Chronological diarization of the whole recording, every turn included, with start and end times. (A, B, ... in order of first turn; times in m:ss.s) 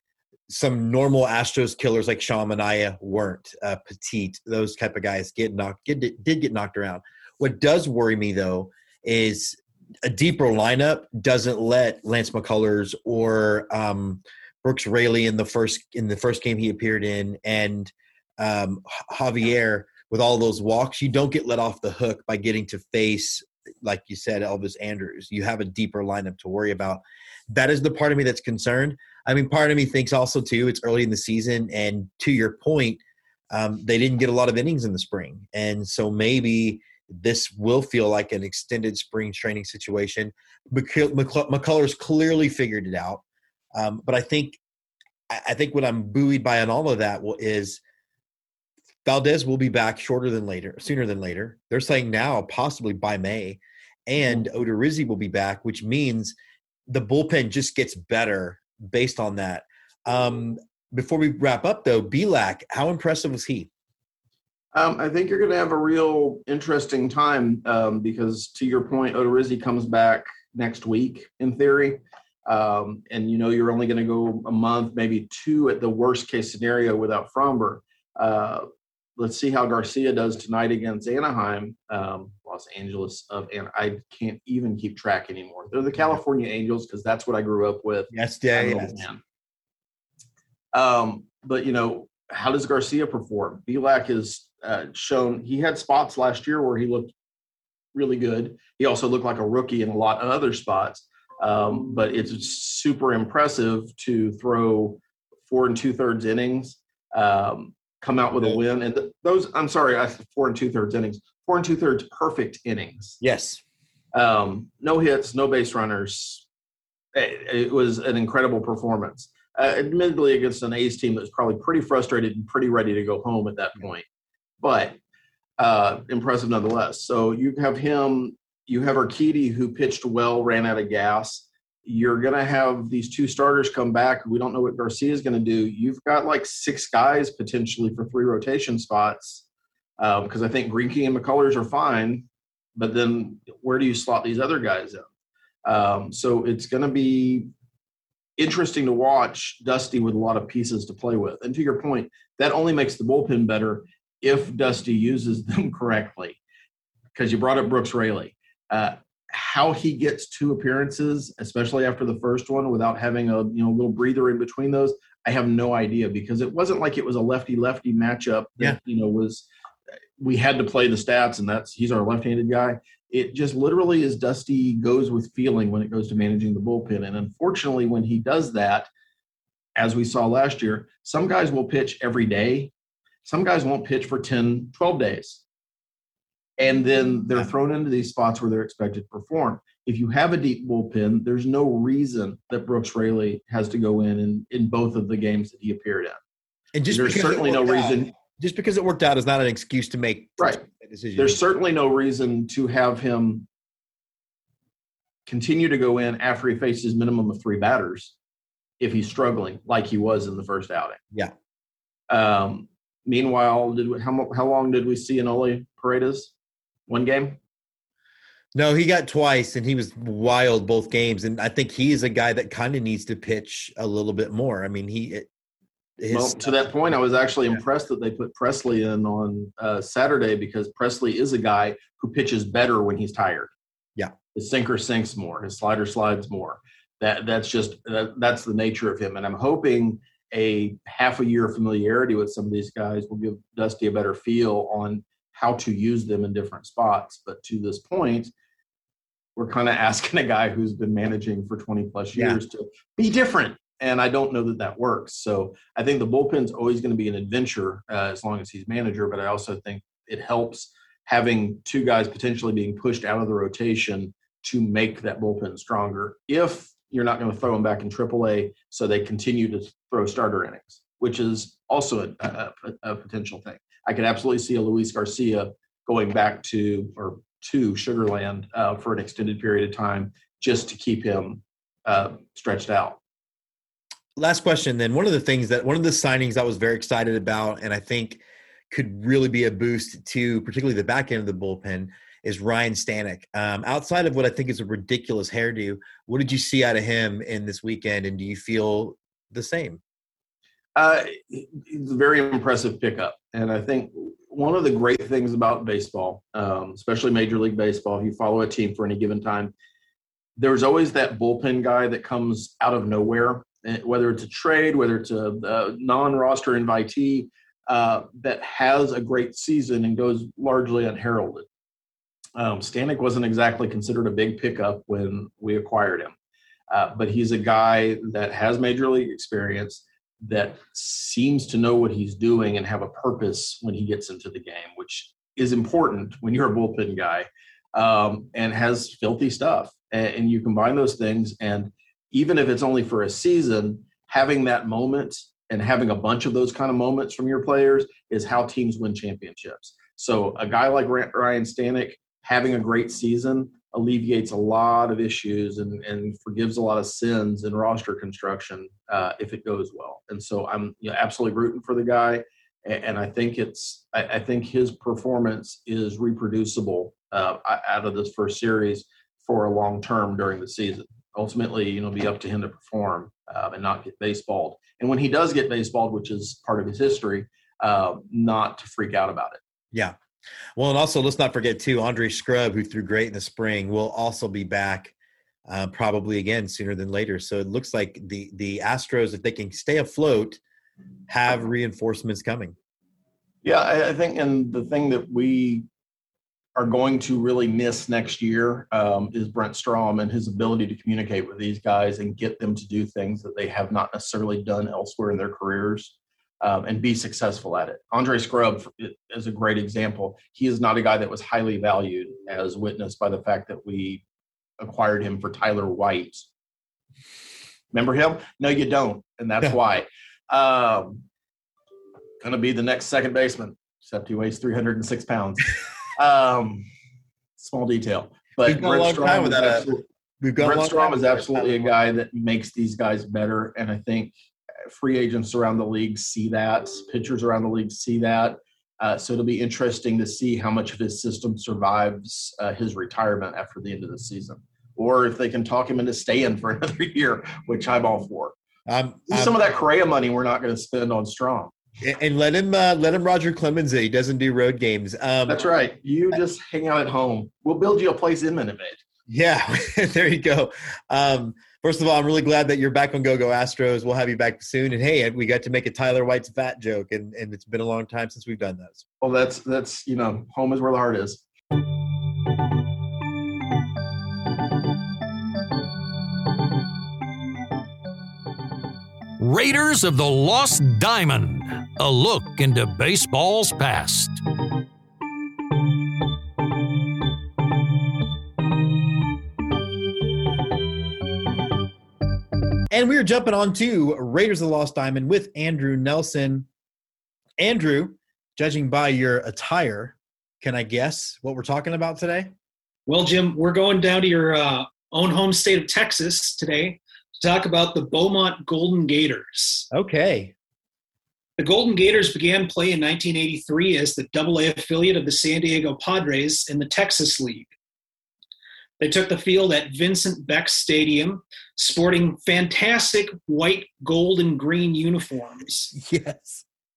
0:00.5-0:33.0 A
0:33.5-0:43.2 A
0:43.8-0:44.6 A
0:45.3-0:47.8 A
0:49.0-0:56.4 A
0:56.9-1:03.7 A
1:04.7-1:18.7 B
1:19.2-1:29.2 B
1:28.1-1:29.0 A
1:30.7-1:37.1 B
1:37.9-1:53.2 B
1:53.2-1:53.6 A
1:54.1-1:56.5 B
1:57.1-2:04.0 B
2:04.6-2:05.0 B
2:05.6-2:19.4 B
2:20.0-2:25.1 B
2:25.6-2:27.5 B
2:28.4-2:36.4 B
2:37.2-2:49.5 B
2:50.2-2:58.9 B
2:59.8-3:02.7 B
3:03.2-3:05.4 B
3:06.6-3:16.2 B
3:16.8-3:21.4 A
3:16.9-3:18.1 B
3:20.4-3:20.6 B
3:21.2-3:23.5 B
3:25.3-3:28.2 B
3:28.8-3:31.0 B
3:32.1-3:36.3 B
3:36.9-3:37.4 B
3:38.6-3:45.3 A
3:46.0-3:46.6 A
3:46.1-3:53.5 B
3:54.3-4:08.3 B
4:09.4-4:43.0 B
4:44.2-4:59.8 A
5:00.8-5:09.5 B
5:10.4-5:21.5 B
5:22.4-5:26.1 B
5:26.7-6:19.4 B
6:20.6-6:24.9 A
6:25.5-6:30.4 A
6:31.1-6:32.6 A
6:33.4-6:35.6 B
6:36.6-6:54.0 B
6:54.6-6:56.3 B
6:57.7-7:01.0 B
7:02.2-7:06.7 B
7:07.4-7:09.8 B
7:08.4-7:09.7 A
7:10.2-7:11.7 A
7:10.4-7:14.1 B
7:14.6-7:28.4 B
7:28.7-7:29.4 A
7:29.1-7:31.5 B
7:31.8-7:35.5 A
7:35.3-7:38.8 B
7:39.1-7:48.8 A
7:49.0-7:51.2 B
7:59.2-8:04.2 C
8:12.7-8:16.5 A
8:17.4-8:22.3 A
8:22.9-8:29.7 D
8:29.7-8:30.3 A
8:31.4-8:37.5 D
8:38.8-8:45.7 D
8:45.7-8:46.4 A